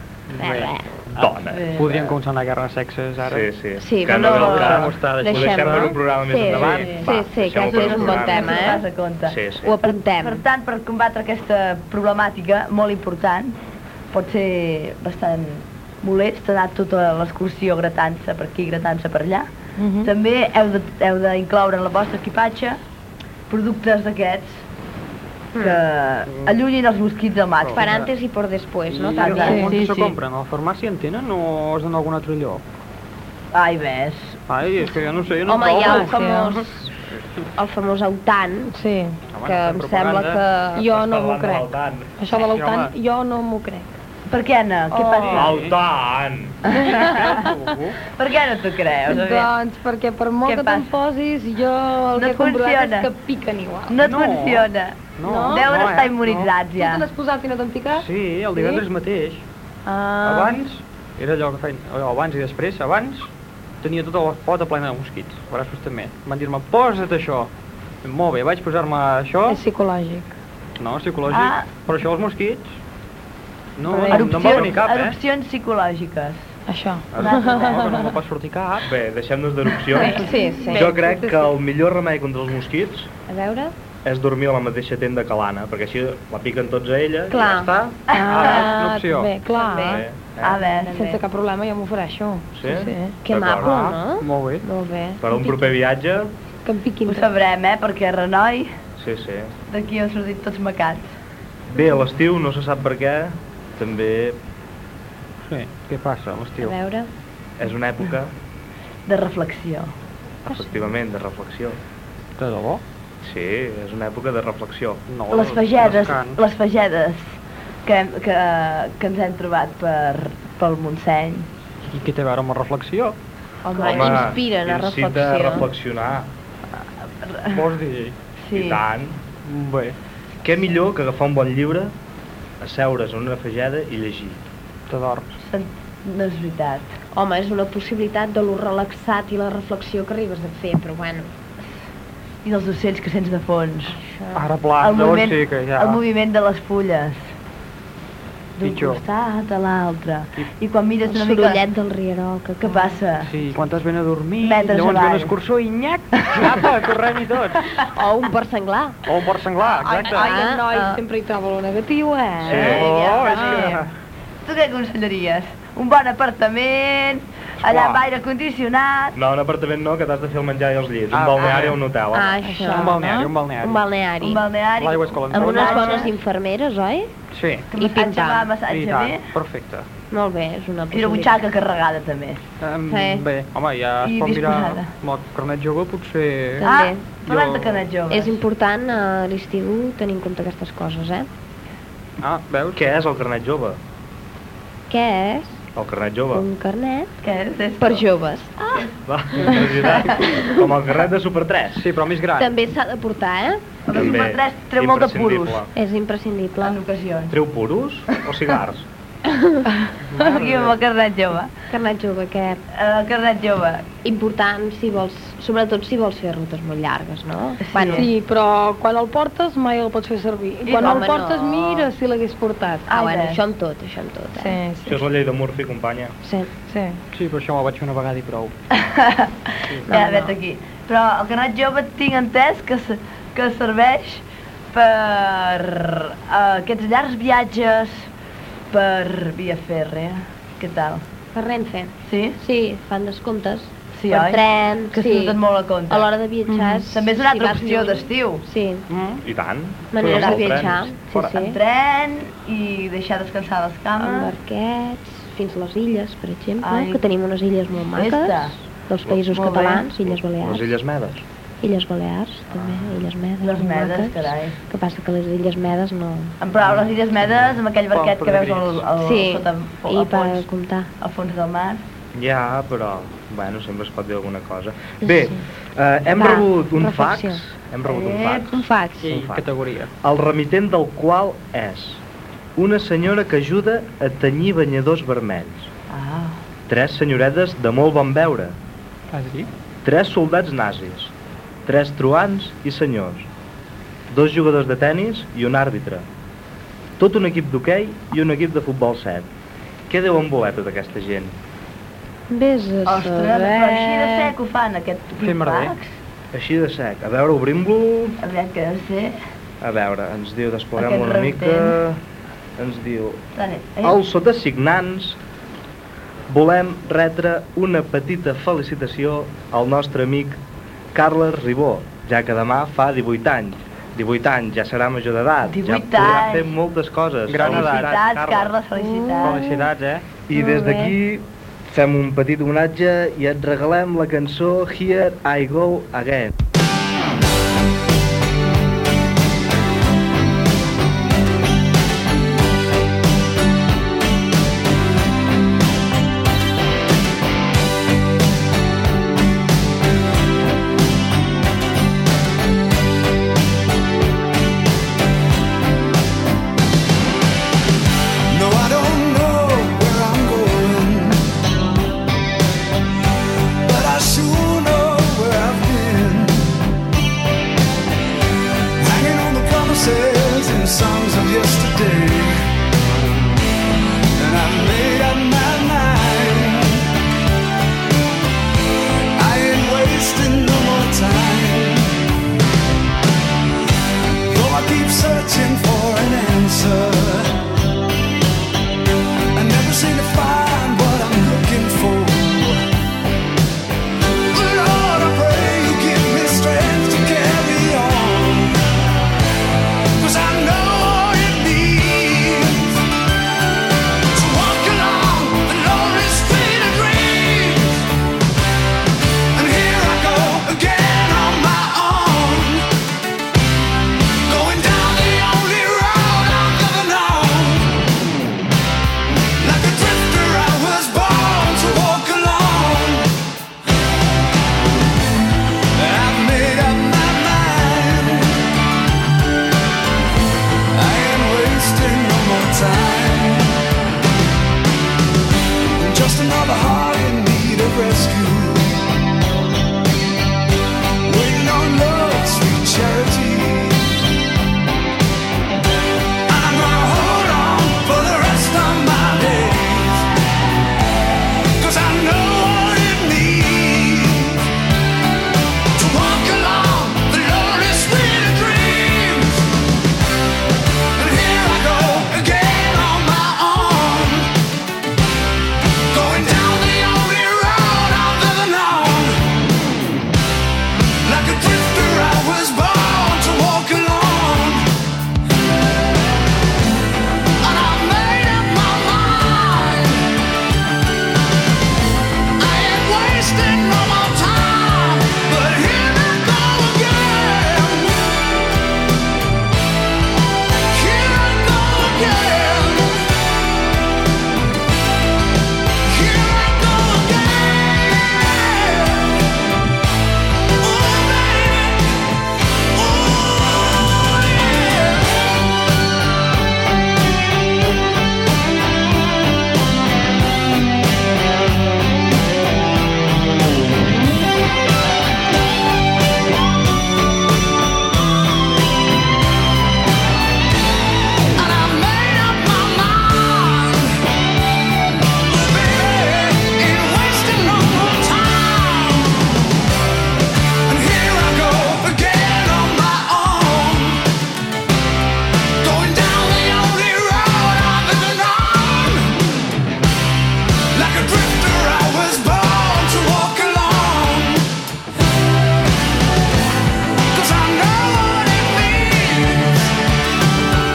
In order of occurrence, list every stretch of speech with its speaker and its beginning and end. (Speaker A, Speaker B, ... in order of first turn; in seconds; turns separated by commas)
Speaker A: 0.3-3.5, Speaker B: 0.4-0.9, Speaker C: 1.1-1.6, Speaker D: 1.5-2.2, Speaker C: 3.2-9.7, Speaker B: 3.8-8.8, Speaker A: 4.1-6.9, Speaker D: 7.0-13.6, Speaker B: 9.6-10.4, Speaker D: 14.1-19.5, Speaker E: 19.8-20.1, Speaker D: 20.0-22.8, Speaker D: 23.5-24.6, Speaker B: 25.5-25.8, Speaker D: 25.6-27.9, Speaker A: 26.3-26.6, Speaker A: 27.6-28.1, Speaker B: 27.7-29.8, Speaker A: 28.9-32.6, Speaker D: 29.2-30.2, Speaker E: 29.4-30.0, Speaker D: 33.5-34.4, Speaker A: 34.5-36.1, Speaker B: 35.5-36.9, Speaker E: 35.7-36.6, Speaker B: 37.6-38.7, Speaker E: 38.7-39.2, Speaker A: 39.3-40.4, Speaker B: 39.4-40.9, Speaker E: 40.8-43.9, Speaker C: 40.9-42.1, Speaker A: 42.3-42.9, Speaker D: 44.3-45.5, Speaker A: 44.9-45.8, Speaker C: 45.3-46.6, Speaker E: 46.9-47.3, Speaker A: 47.0-48.0, Speaker D: 48.1-49.5, Speaker E: 49.1-54.0, Speaker D: 50.5-50.9, Speaker D: 52.1-53.1, Speaker D: 53.9-57.1, Speaker A: 54.0-56.5, Speaker E: 55.2-55.7, Speaker E: 56.7-58.8, Speaker A: 57.9-59.4, Speaker E: 59.9-60.6, Speaker A: 60.2-63.3, Speaker A: 63.8-67.5, Speaker A: 68.0-69.6, Speaker E: 69.5-70.3, Speaker A: 70.8-72.8, Speaker D: 71.3-71.7, Speaker A: 73.8-75.2, Speaker E: 73.9-74.7, Speaker D: 74.1-76.4, Speaker E: 76.7-78.2, Speaker A: 77.2-78.9, Speaker D: 77.2-78.0, Speaker C: 78.8-83.1, Speaker E: 79.8-81.6, Speaker B: 80.0-80.9, Speaker B: 83.3-83.8, Speaker C: 84.0-87.4, Speaker B: 87.3-87.7, Speaker A: 87.4-89.3, Speaker E: 88.1-90.1, Speaker D: 88.1-88.5, Speaker B: 89.5-90.0, Speaker C: 89.8-90.6, Speaker D: 90.4-90.9, Speaker B: 90.7-91.2, Speaker E: 90.9-93.2, Speaker C: 92.5-93.7, Speaker B: 93.2-95.7, Speaker A: 93.6-94.7, Speaker C: 95.2-96.3, Speaker E: 96.7-97.3, Speaker D: 97.1-98.7, Speaker C: 99.0-99.5, Speaker D: 99.7-101.1, Speaker C: 101.7-104.4, Speaker A: 105.5-106.8, Speaker B: 106.6-107.1, Speaker C: 107.6-108.3, Speaker D: 109.1-109.9, Speaker C: 110.5-111.8, Speaker B: 110.5-110.9, Speaker A: 112.4-112.8, Speaker C: 113.2-115.0, Speaker A: 115.1-116.4, Speaker D: 115.3-117.3, Speaker D: 117.9-121.5, Speaker A: 121.8-123.2, Speaker B: 123.6-125.7, Speaker D: 123.7-124.1, Speaker C: 123.8-126.3, Speaker D: 127.2-127.6, Speaker A: 127.5-128.2, Speaker D: 128.4-128.8, Speaker C: 128.5-129.2, Speaker A: 129.4-130.0, Speaker C: 130.4-131.9, Speaker C: 132.6-134.4, Speaker A: 134.9-135.3, Speaker D: 135.4-136.9, Speaker B: 137.1-141.3, Speaker D: 142.4-143.9, Speaker B: 143.9-144.5, Speaker A: 144.3-146.0, Speaker D: 144.8-147.2, Speaker D: 148.6-151.6, Speaker A: 148.6-149.0, Speaker B: 151.1-153.0, Speaker D: 152.6-153.3, Speaker A: 153.3-157.7, Speaker D: 154.4-155.3, Speaker B: 157.9-159.0, Speaker A: 159.1-160.2, Speaker E: 159.7-163.7, Speaker B: 160.1-161.0, Speaker C: 162.4-162.9, Speaker D: 162.5-163.9, Speaker A: 162.6-163.9, Speaker D: 164.4-169.2, Speaker C: 167.6-168.0, Speaker C: 169.2-172.4, Speaker A: 171.1-171.8, Speaker B: 172.1-173.1, Speaker E: 172.4-173.3, Speaker A: 172.7-173.8, Speaker B: 173.6-174.4, Speaker D: 174.2-176.1, Speaker A: 174.8-176.1, Speaker B: 175.3-177.1, Speaker A: 177.3-177.7, Speaker D: 177.7-179.3, Speaker B: 177.8-178.5, Speaker A: 178.7-179.9, Speaker B: 180.1-181.3, Speaker D: 180.9-182.4, Speaker A: 182.6-186.7, Speaker B: 182.9-183.2, Speaker D: 184.0-184.9, Speaker B: 186.6-187.0, Speaker D: 186.6-188.4, Speaker A: 187.3-187.8, Speaker B: 188.1-191.3, Speaker A: 192.2-192.8, Speaker C: 192.8-193.8, Speaker B: 194.9-195.6, Speaker C: 195.8-196.4, Speaker B: 196.3-197.1, Speaker D: 197.2-198.1, Speaker B: 197.8-198.8, Speaker C: 199.1-201.8, Speaker D: 199.8-200.2, Speaker B: 200.1-200.6, Speaker A: 201.8-202.5, Speaker B: 202.4-203.6, Speaker D: 203.9-205.7, Speaker C: 203.9-205.7, Speaker B: 205.7-206.8, Speaker D: 206.6-207.3, Speaker C: 207.3-208.9, Speaker B: 209.3-209.7, Speaker D: 209.8-211.5, Speaker A: 210.1-210.8, Speaker B: 211.7-212.6, Speaker D: 212.7-213.9, Speaker B: 214.0-218.1, Speaker D: 217.7-218.1, Speaker E: 217.9-222.9, Speaker D: 220.7-221.2, Speaker B: 220.8-221.9, Speaker B: 222.9-224.6, Speaker D: 222.9-223.4, Speaker E: 224.4-225.0, Speaker C: 224.9-226.1, Speaker B: 226.2-226.5, Speaker E: 226.7-227.0, Speaker A: 227.1-228.5, Speaker D: 228.7-238.1, Speaker B: 229.9-230.3, Speaker D: 238.7-241.0, Speaker B: 241.3-245.4, Speaker D: 242.1-242.4, Speaker D: 243.9-244.4, Speaker D: 244.9-246.1, Speaker B: 245.9-248.9, Speaker E: 246.5-246.8, Speaker D: 246.9-248.4, Speaker A: 248.9-249.2, Speaker C: 249.2-250.8, Speaker B: 249.9-251.6, Speaker D: 250.0-254.3, Speaker B: 254.0-260.7, Speaker D: 256.6-257.1, Speaker D: 257.9-258.6, Speaker D: 259.3-259.9, Speaker C: 260.1-261.2, Speaker B: 261.6-266.4, Speaker C: 262.5-263.0, Speaker D: 263.4-264.6, Speaker D: 266.4-270.5, Speaker A: 267.9-268.8, Speaker B: 269.0-270.9, Speaker D: 271.0-271.8, Speaker C: 272.1-279.4, Speaker B: 276.1-277.4, Speaker D: 277.9-278.5, Speaker B: 278.5-279.1, Speaker A: 279.0-279.9, Speaker C: 280.0-282.0, Speaker C: 282.6-285.7, Speaker D: 285.9-286.4, Speaker C: 286.7-288.6, Speaker A: 289.1-289.5, Speaker C: 289.8-291.1, Speaker C: 291.7-293.3, Speaker C: 294.1-296.1, Speaker C: 297.0-299.3, Speaker C: 299.9-301.4, Speaker B: 302.3-304.3, Speaker D: 302.9-305.9, Speaker A: 305.2-305.7, Speaker C: 306.3-308.2, Speaker D: 308.2-309.2, Speaker C: 309.6-312.0, Speaker D: 310.8-311.8, Speaker C: 312.6-313.2, Speaker D: 313.4-314.0, Speaker C: 313.8-315.2, Speaker C: 316.3-320.4, Speaker C: 320.9-328.5, Speaker D: 325.5-326.5, Speaker A: 327.3-328.1, Speaker D: 327.4-329.6, Speaker B: 328.8-329.7, Speaker A: 329.2-330.0, Speaker C: 330.3-336.3, Speaker B: 330.3-331.0, Speaker F: 358.3-361.2, Speaker F: 363.6-366.5, Speaker F: 368.8-372.5, Speaker F: 374.1-376.9, Speaker F: 379.2-382.0, Speaker F: 384.3-387.3, Speaker F: 389.3-392.6, Speaker F: 394.3-398.6, Speaker F: 400.0-402.8, Speaker F: 404.1-407.9, Speaker F: 409.3-412.7, Speaker F: 414.3-417.8, Speaker F: 419.4-423.1, Speaker F: 425.8-428.5, Speaker F: 430.7-433.6, Speaker F: 435.8-438.8, Speaker F: 441.1-443.9, Speaker F: 446.3-450.1, Speaker F: 451.6-454.4, Speaker F: 455.7-459.5, Speaker F: 460.9-464.3, Speaker F: 465.9-469.2, Speaker F: 471.0-474.7, Speaker F: 477.4-480.1, Speaker F: 482.4-488.1, Speaker F: 490.7-493.0, Speaker F: 495.9-499.1, Speaker F: 500.6-501.8, Speaker F: 502.8-504.7, Speaker F: 521.4-524.0, Speaker F: 525.3-529.3, Speaker F: 530.7-534.0, Speaker F: 535.6-539.2, Speaker F: 540.7-544.5, Speaker F: 547.1-549.7